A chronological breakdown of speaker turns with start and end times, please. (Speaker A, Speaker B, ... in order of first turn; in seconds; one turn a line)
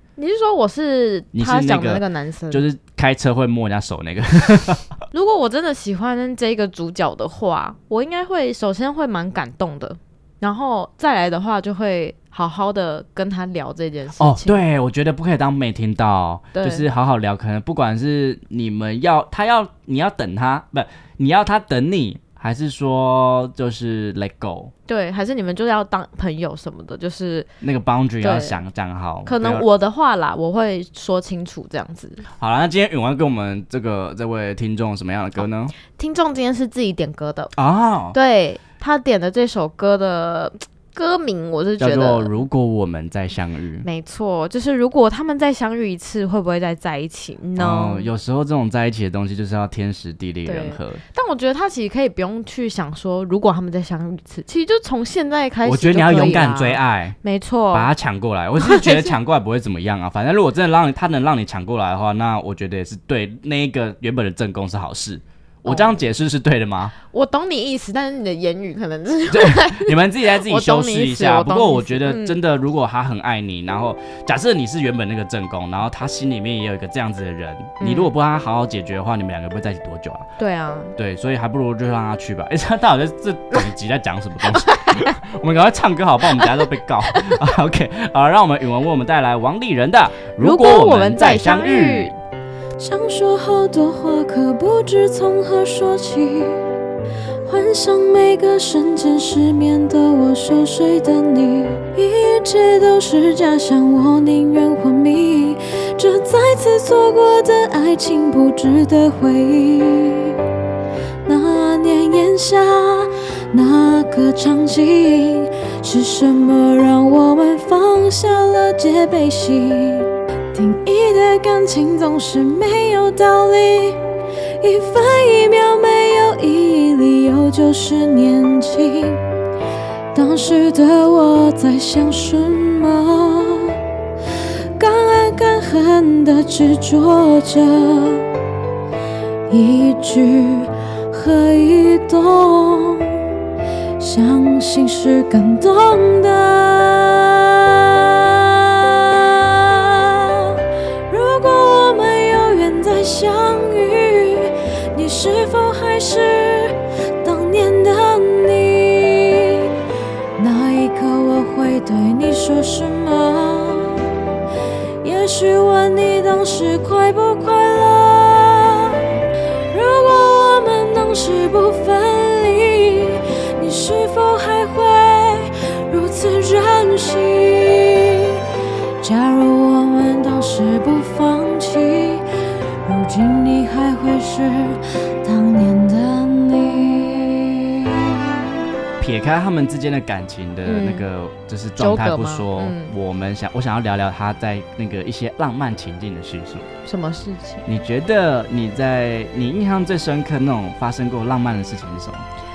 Speaker A: 0.2-2.7
Speaker B: 1.3-5.0
Speaker A: 5.1-14.6
Speaker B: 14.2-24.7
Speaker A: 16.6-16.9
Speaker A: 24.9-27.5
Speaker B: 27.6-29.7
Speaker A: 28.2-28.6
Speaker A: 29.2-32.2
Speaker B: 32.4-35.7
Speaker A: 36.0-37.5
Speaker B: 37.6-38.2
Speaker A: 38.1-42.3
Speaker B: 41.8-43.9
Speaker A: 43.8-48.1
Speaker B: 47.6-51.0
Speaker A: 50.5-57.9
Speaker B: 55.6-57.2
Speaker B: 57.7-66.9
Speaker A: 58.6-59.2
Speaker A: 65.7-66.1
Speaker A: 67.1-72.4
Speaker B: 69.3-80.2
Speaker A: 77.8-78.1
Speaker A: 80.4-80.9
Speaker B: 81.0-92.2
Speaker A: 84.8-85.1
Speaker A: 87.2-87.5
Speaker A: 90.4-92.1
Speaker C: 92.8-96.7
Speaker C: 97.5-110.4
Speaker A: 104.3-105.1
Speaker A: 106.0-106.6
Speaker A: 108.2-108.9
Speaker C: 111.3-124.0
Speaker A: 114.5-115.1
Speaker A: 116.0-117.7
Speaker A: 121.3-121.8
Speaker C: 124.6-129.2
Speaker A: 127.7-128.1
Speaker C: 130.2-133.8
Speaker A: 130.2-131.1
Speaker A: 131.8-133.1
Speaker A: 134.8-135.4
Speaker C: 134.8-138.2
Speaker A: 136.1-136.9
Speaker A: 137.6-138.2
Speaker A: 139.5-140.4
Speaker C: 139.5-143.3
Speaker A: 141.1-141.4
Speaker C: 144.1-150.5
Speaker C: 151.1-159.7
Speaker C: 160.4-164.2
Speaker C: 165.0-169.2
Speaker C: 169.7-178.4
Speaker C: 179.0-182.3
Speaker C: 182.8-188.1
Speaker B: 189.0-196.7
Speaker A: 190.7-191.1
Speaker A: 191.8-192.9
Speaker A: 196.8-197.7
Speaker B: 197.7-202.2